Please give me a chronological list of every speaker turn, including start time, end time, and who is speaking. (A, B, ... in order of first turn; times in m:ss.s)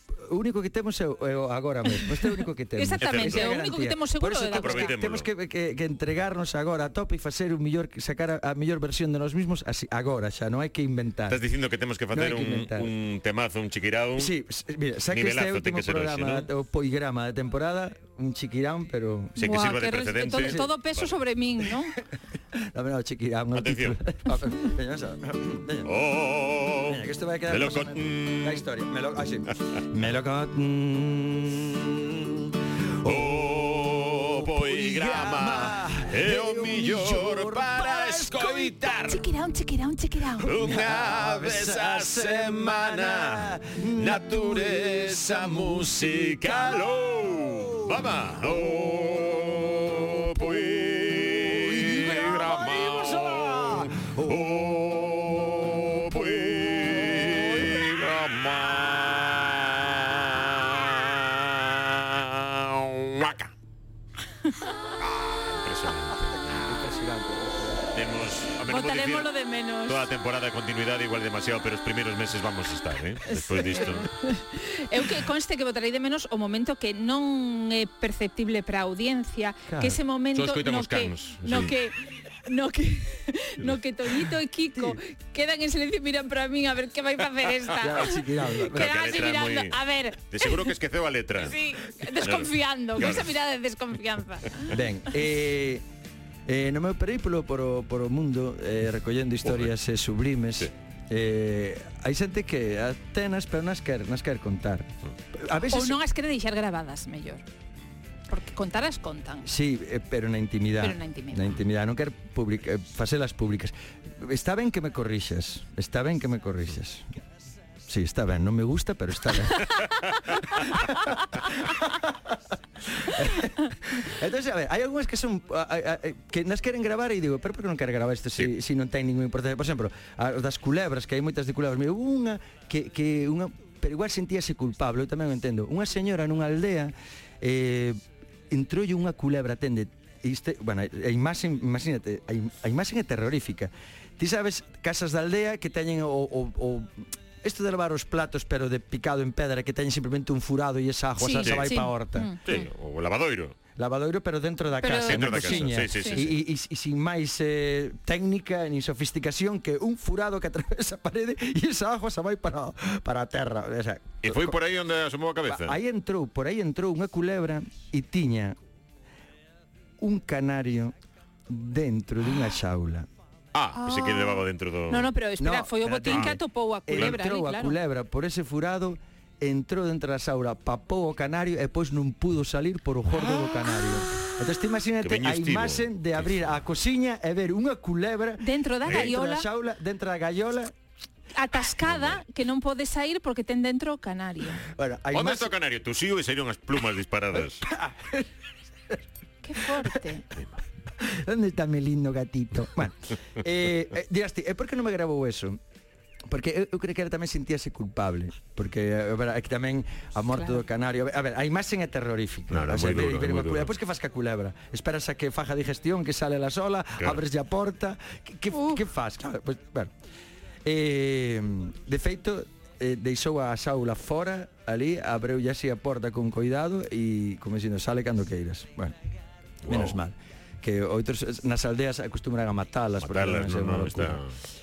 0:00.2-0:11.4 A
0:02.8-0:04.9 B
0:03.0-0:03.5 C
0:04.5-0:05.3 C
0:11.3-0:14.3 C
0:12.1-0:12.9 A
0:14.2-0:19.4 A
0:15.1-0:16.5 C
0:19.4-0:21.9 B
0:19.4-0:21.1 C
0:20.3-0:20.7 A
0:22.7-0:25.9 A
0:23.5-0:24.0 C
0:25.8-0:28.6 C
0:26.8-0:38.7 A
0:33.0-0:39.2 C
0:39.0-0:40.5 B
0:40.4-0:46.9 A
0:40.4-1:03.5 C
0:47.4-0:48.0 A
0:50.3-0:54.6 A
0:55.5-0:57.8 A
1:05.0-1:07.0 C
1:06.2-1:08.0 A
1:07.9-1:09.3 C
1:08.7-1:10.1 B
1:09.8-1:14.0 C
1:13.3-1:30.7 B
1:13.6-1:14.0 A
1:19.7-1:20.0 A
1:20.3-1:21.7 C
1:21.4-1:21.7 A
1:24.7-1:25.0 A
1:27.8-1:28.9 A
1:28.7-1:31.5 C
1:31.4-1:34.8 B
1:32.2-1:33.3 C
1:34.7-1:35.8 A
1:36.5-1:46.0 A
1:39.4-1:39.7 C
1:45.6-1:47.4 B
1:48.3-1:49.5 B
1:49.4-1:57.0 A
1:50.8-1:51.5 B
1:57.9-2:18.0 A
2:18.5-2:32.3 A
2:31.2-2:32.7 B
2:31.4-2:31.7 C
2:32.4-2:33.6 C
2:33.8-2:44.6 A
2:34.8-2:36.2 B
2:35.1-2:36.4 C
2:44.2-2:45.7 C
2:45.4-2:48.6 A
2:50.0-2:50.9 A
2:51.5-2:53.1 A
2:53.5-2:55.1 C
2:53.8-2:57.8 B
2:55.4-3:10.7 A
2:56.1-2:56.4 C
2:56.9-2:57.2 C
3:05.0-3:06.5 C
3:08.4-3:09.5 B
3:08.8-3:09.1 C
3:11.3-3:14.6 B
3:11.8-3:12.2 C
3:14.7-3:15.5 A
3:15.1-3:17.6 C
3:17.6-3:18.3 A
3:19.4-3:20.2 B
3:19.6-3:20.0 A
3:21.0-3:25.6 A
3:26.3-3:39.9 A
3:32.5-3:33.7 C
3:38.5-3:38.8 B
3:40.6-3:49.0 A
3:49.6-3:50.0 C
3:49.6-3:54.2 A
3:53.0-3:54.4 C